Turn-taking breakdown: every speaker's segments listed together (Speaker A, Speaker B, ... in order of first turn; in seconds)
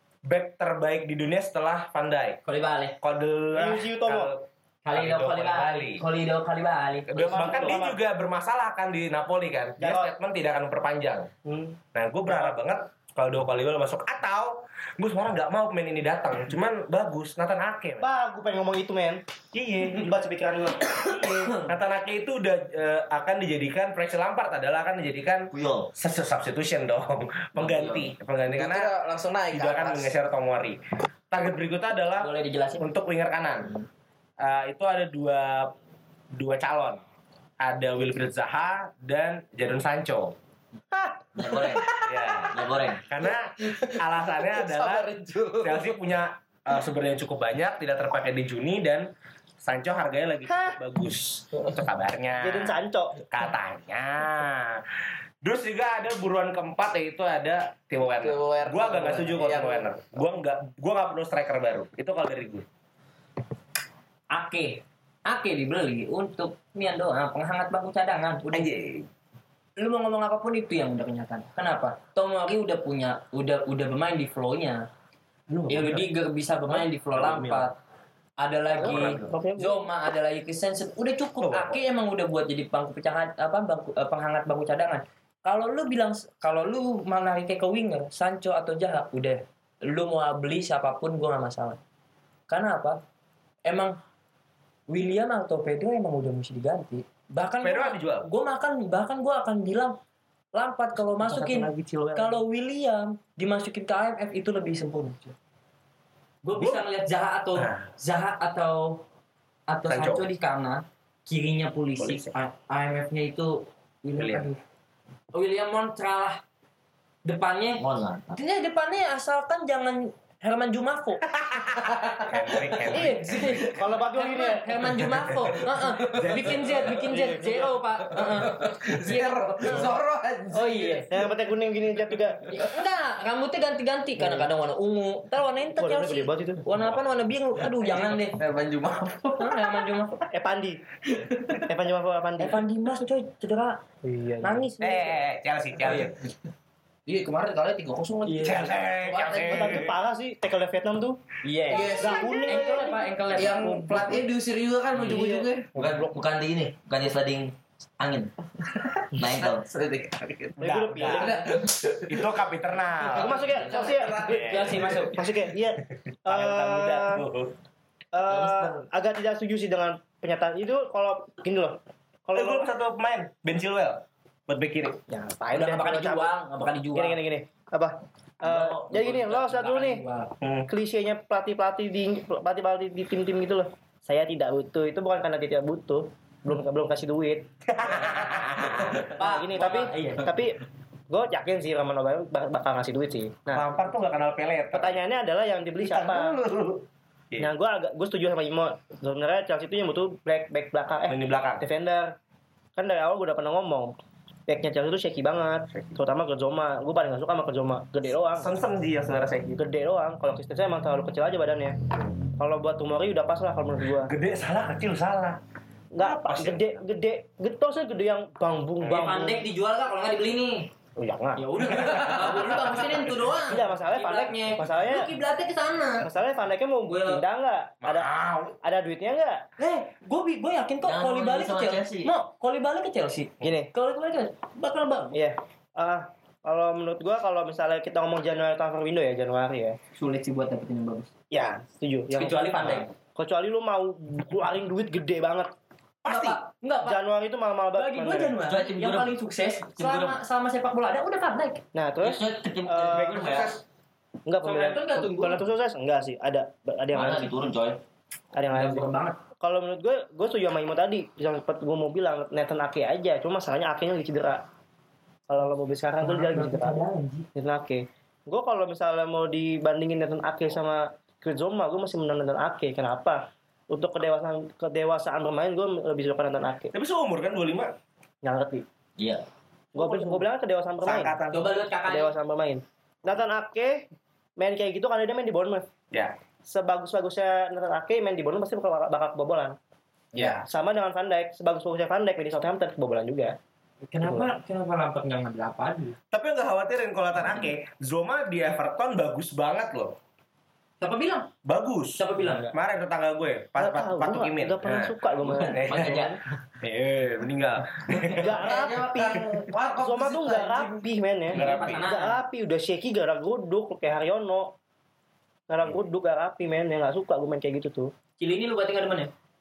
Speaker A: 0.2-2.4, 3.0-6.0, 7.1-11.3, 11.9-18.1, 19.5-20.1, 21.5-28.9, 29.5-30.8, 31.3-33.7, 34.4-35.7, 36.3-37.0, 37.6-40.4, 42.0-45.1, 45.6-49.1, 49.6-54.8, 55.4-62.6, 68.5-69.1, 75.5-76.1, 76.7-77.7, 78.8-79.3, 81.4-81.8, 97.6-98.3, 101.2-102.4, 106.5-106.8, 107.5-107.9, 109.9-110.3, 112.0-112.3, 114.2-114.5, 122.3-123.5, 125.0-125.4, 126.1-127.1, 137.8-138.2, 144.8-146.2, 148.4-150.0, 160.6-161.4, 162.1-163.5, 164.3-164.8, 166.1-167.5, 172.3-175.0, 180.4-180.7, 187.7-189.0, 193.5-195.0, 195.8-197.5, 201.1-201.6, 205.7-206.0, 208.3-209.6, 213.9-215.4, 216.0-216.8, 227.8-228.5, 246.0-246.4, 252.9-253.6, 276.7-277.7, 279.7-280.2, 280.8-281.5, 290.1-290.4, 296.1-299.9, 301.4-308.5, 311.3-311.9
Speaker B: 2.5-3.0, 4.8-7.8, 32.1-32.9, 64.3-68.5, 69.8-74.8, 75.7-77.8, 78.4-91.8, 92.5-93.0, 93.7-94.0, 94.9-100.0, 100.5-105.3, 106.4-109.0, 109.7-114.6, 115.3-116.4, 117.2-121.2, 122.9-130.0, 130.5-131.1, 132.5-138.4, 139.4-140.2, 142.4-143.8, 144.4-145.2, 148.2-148.7, 151.4-154.2, 164.2-165.2, 168.3-168.7, 175.5-177.2, 178.4-180.3, 189.1-190.3, 218.8-220.7, 221.3-226.1, 226.8-227.2, 229.6-235.2, 239.9-241.1, 242.1-242.9, 246.0-247.0, 247.7-251.6, 254.4-255.4, 258.5-259.2, 266.0-267.3, 281.3-282.1, 293.9-296.0, 300.8-301.3, 302.0-302.5, 311.3-312.2, 318.2-319.1
Speaker C: 3.5-4.3, 7.2-8.0, 9.8-10.1, 11.4-12.5, 18.0-19.2, 19.9-21.6, 52.4-53.2, 78.8-79.8, 123.7-125.0, 127.1-127.8, 131.1-132.5, 134.2-134.5, 135.8-136.6, 140.3-140.8, 141.7-142.6, 144.0-144.7, 149.3-151.2, 151.7-153.0, 155.0-156.0, 160.6-161.4, 163.1-164.5, 165.1-167.2, 168.1-172.7, 175.1-176.3, 176.9-180.0, 180.7-187.5, 189.0-193.7, 194.7-196.3, 197.4-202.2, 202.8-204.0, 204.5-208.5, 209.6-211.8, 212.3-214.1, 215.9-219.4, 221.0-221.8, 223.4-225.1, 226.0-228.1, 228.6-229.4, 233.4-233.7, 235.1-239.8, 241.3-245.5, 246.8-248.4, 251.7-253.4, 254.2-257.3, 258.3-258.9, 259.4-264.4, 265.3-266.8, 267.4-276.7, 278.2-278.6, 279.7-281.2, 281.8-285.7, 286.4-289.6, 290.4-293.4, 294.0-294.3, 303.6-306.1, 308.1-314.5, 315.5-317.9
Speaker D: 25.5-25.9, 27.6-28.1, 41.3-41.9, 42.5-43.0, 117.8-118.4, 155.8-158.3, 159.1-159.7, 163.6-164.1, 230.8-232.1, 248.4-249.1, 249.8-250.2, 252.0-253.5, 256.9-257.8, 279.0-279.2, 305.2-306.2
Speaker E: 28.5-30.1, 40.9-42.4, 43.3-45.8, 58.1-59.9, 121.8-122.7, 123.3-123.8, 125.8-126.4, 128.1-131.1, 138.3-139.9, 141.1-141.7, 147.1-149.8, 151.7-155.7, 159.4-162.3, 163.0-165.2, 221.8-223.0, 290.1-290.4, 308.2-310.9